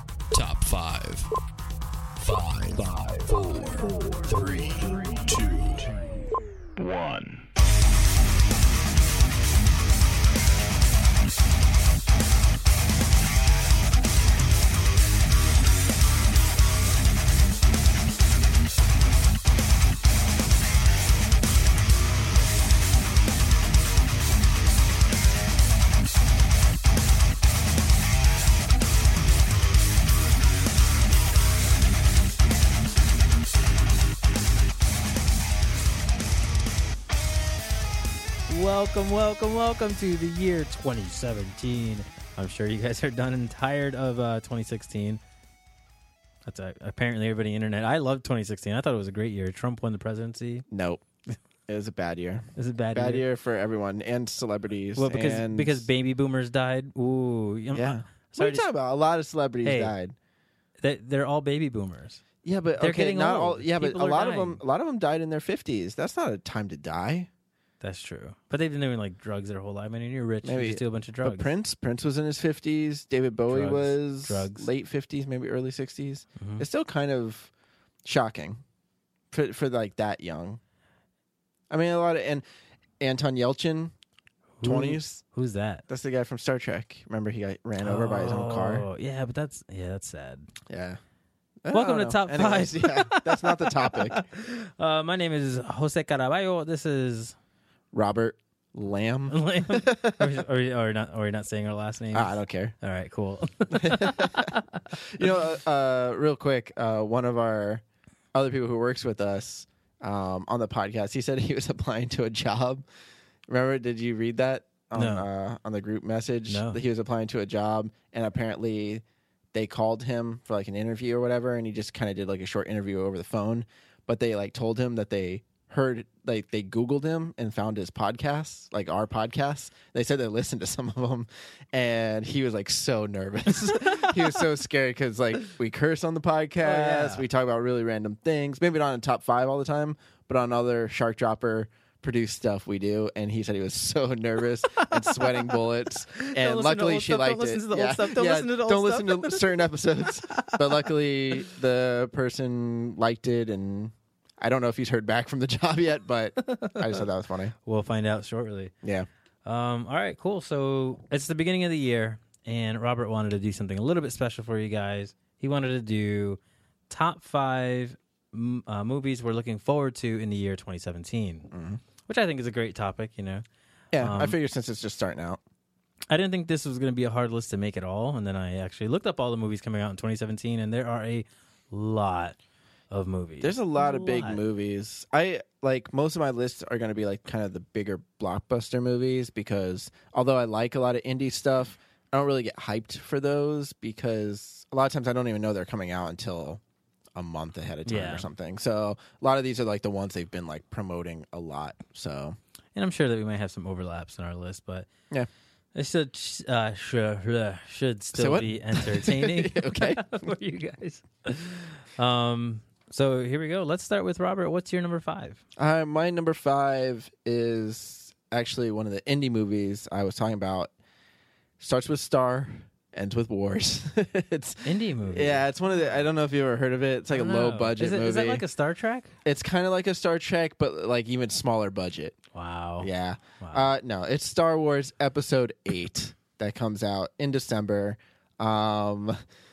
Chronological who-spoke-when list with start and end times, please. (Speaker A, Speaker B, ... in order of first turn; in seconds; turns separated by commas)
Speaker A: 0.3-1.3, Speaker A: 2.2-7.5, Speaker B: 38.5-45.2, Speaker B: 46.5-50.7, Speaker C: 50.7-51.0, Speaker C: 51.7-55.9, Speaker B: 52.6-53.3, Speaker B: 55.0-58.7, Speaker C: 57.7-60.1, Speaker B: 59.6-59.9, Speaker B: 60.8-62.2, Speaker C: 62.4-67.3, Speaker B: 62.8-64.6, Speaker B: 67.8-71.5, Speaker C: 70.4-77.5, Speaker B: 73.5-74.7, Speaker B: 76.4-76.7, Speaker C: 78.0-78.6, Speaker C: 79.3-80.6, Speaker C: 81.7-82.4, Speaker C: 83.0-83.9, Speaker B: 84.6-85.8, Speaker C: 84.6-85.2, Speaker C: 85.9-88.9, Speaker B: 87.8-90.5, Speaker C: 90.7-91.0, Speaker C: 91.6-94.2, Speaker B: 91.7-97.3, Speaker C: 97.9-100.3, Speaker B: 99.3-105.2, Speaker C: 102.1-102.7, Speaker C: 103.7-104.5, Speaker C: 105.1-107.8, Speaker C: 108.3-112.8, Speaker C: 113.5-157.6, Speaker B: 115.0-115.3, Speaker B: 116.5-116.8, Speaker B: 133.7-134.2, Speaker B: 136.6-137.3, Speaker B: 144.8-145.6, Speaker B: 146.1-149.6, Speaker B: 150.3-150.8, Speaker B: 156.4-157.0, Speaker B: 157.7-158.7, Speaker B: 159.4-171.5, Speaker C: 171.5-171.8, Speaker B: 172.1-173.4, Speaker C: 173.9-175.4, Speaker B: 174.0-174.4, Speaker B: 176.1-182.4, Speaker B: 182.9-184.4, Speaker C: 183.4-196.6, Speaker C: 197.2-202.4, Speaker B: 197.9-198.3, Speaker B: 202.8-204.9, Speaker B: 205.8-215.4, Speaker C: 208.1-210.0, Speaker C: 215.6-220.7, Speaker C: 221.6-228.4, Speaker B: 224.6-226.1, Speaker B: 227.1-229.1, Speaker C: 229.2-232.2, Speaker B: 232.3-233.7, Speaker C: 232.8-239.2